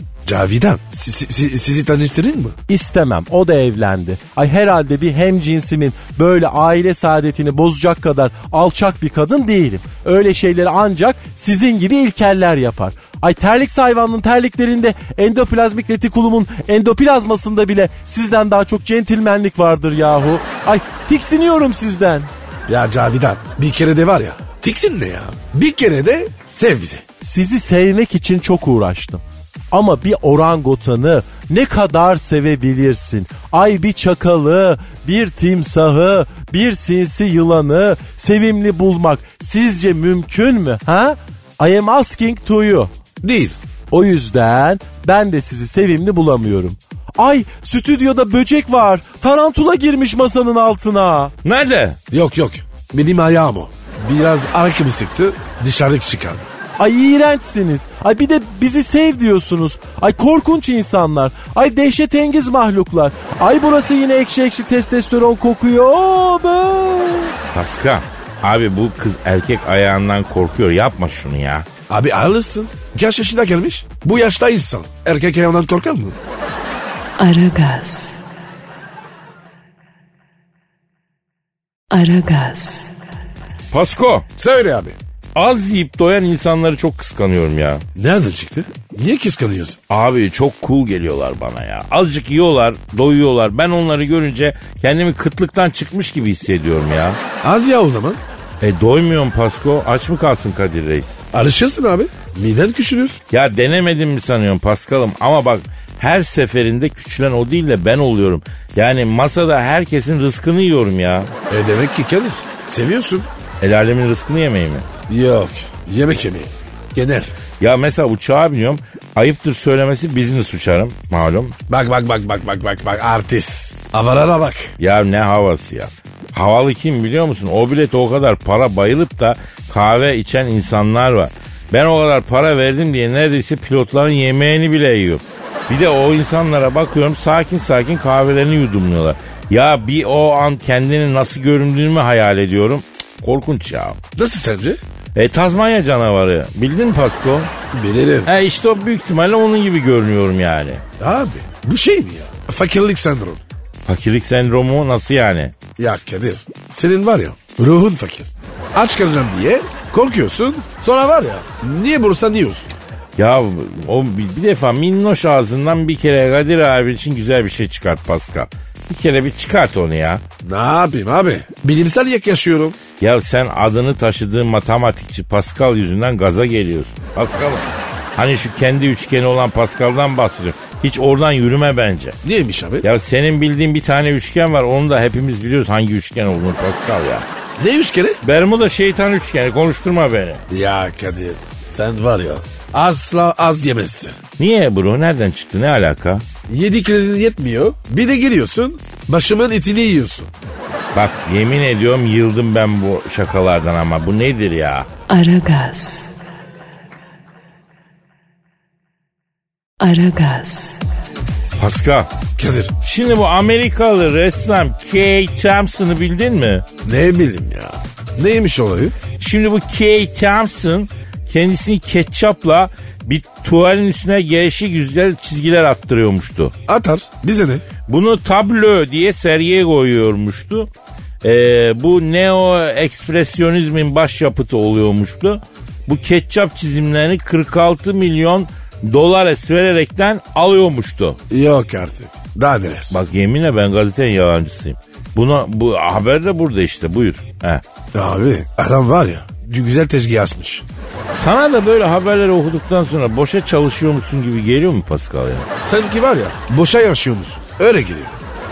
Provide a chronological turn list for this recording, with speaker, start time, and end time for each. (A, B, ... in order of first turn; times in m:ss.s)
0:00.3-0:02.6 A
0:02.7-0:22.3 B
0:22.7-0:27.0 A
0:27.2-0:42.9 B
0:43.2-0:43.6 A
0:43.9-0:51.3 B
0:51.4-0:52.0 C
0:52.1-0:56.5 A
0:56.8-1:07.3 B
1:07.5-1:11.7 C
1:11.9-1:16.2 A
1:17.2-1:18.2 D
1:21.9-1:22.9 D
1:23.7-1:24.3 C
1:24.4-1:25.0 A
1:25.4-1:27.8 C
1:28.0-1:29.8 A
1:29.9-1:37.2 C
1:37.4-1:38.2 A
1:38.6-1:41.2 C
1:41.3-1:43.2 A
1:43.3-1:51.3 C
1:51.5-1:53.3 A
1:53.6-1:54.9 C
1:55.1-1:57.3 A
1:57.6-2:01.6 C
2:01.7-2:04.7 A
2:04.8-2:24.0 C
2:24.2-2:24.8 A
2:25.2-2:27.5 C
2:27.7-2:28.3 A
2:28.3-2:30.8 C
2:31.0-2:33.4 A
2:33.9-2:35.6 C
2:35.8-2:42.7 A
2:43.2-2:50.2 C
2:50.4-2:52.8 A
2:53.0-3:02.2 C
3:02.2-3:02.9 A
3:02.8-3:07.3 C
3:07.6-3:08.2 A
3:08.2-3:10.4 C
3:10.5-3:14.2 A
3:14.4-3:16.2 C
3:16.5-3:20.3 A
3:20.9-3:24.9 C
3:25.1-3:26.1 D
3:29.8-3:30.8 D
3:31.6-3:32.1 C
3:32.4-3:32.7 A
3:32.8-3:36.6 C
3:36.8-3:39.0 A
3:39.2-3:46.5 C
3:46.7-3:47.6 A
3:47.9-3:50.7 C
3:51.2-4:01.2 C
4:01.3-4:03.0 A
4:02.9-4:07.6 C
4:07.9-4:10.6 A
4:11.1-4:15.5 C
4:15.6-4:18.1 A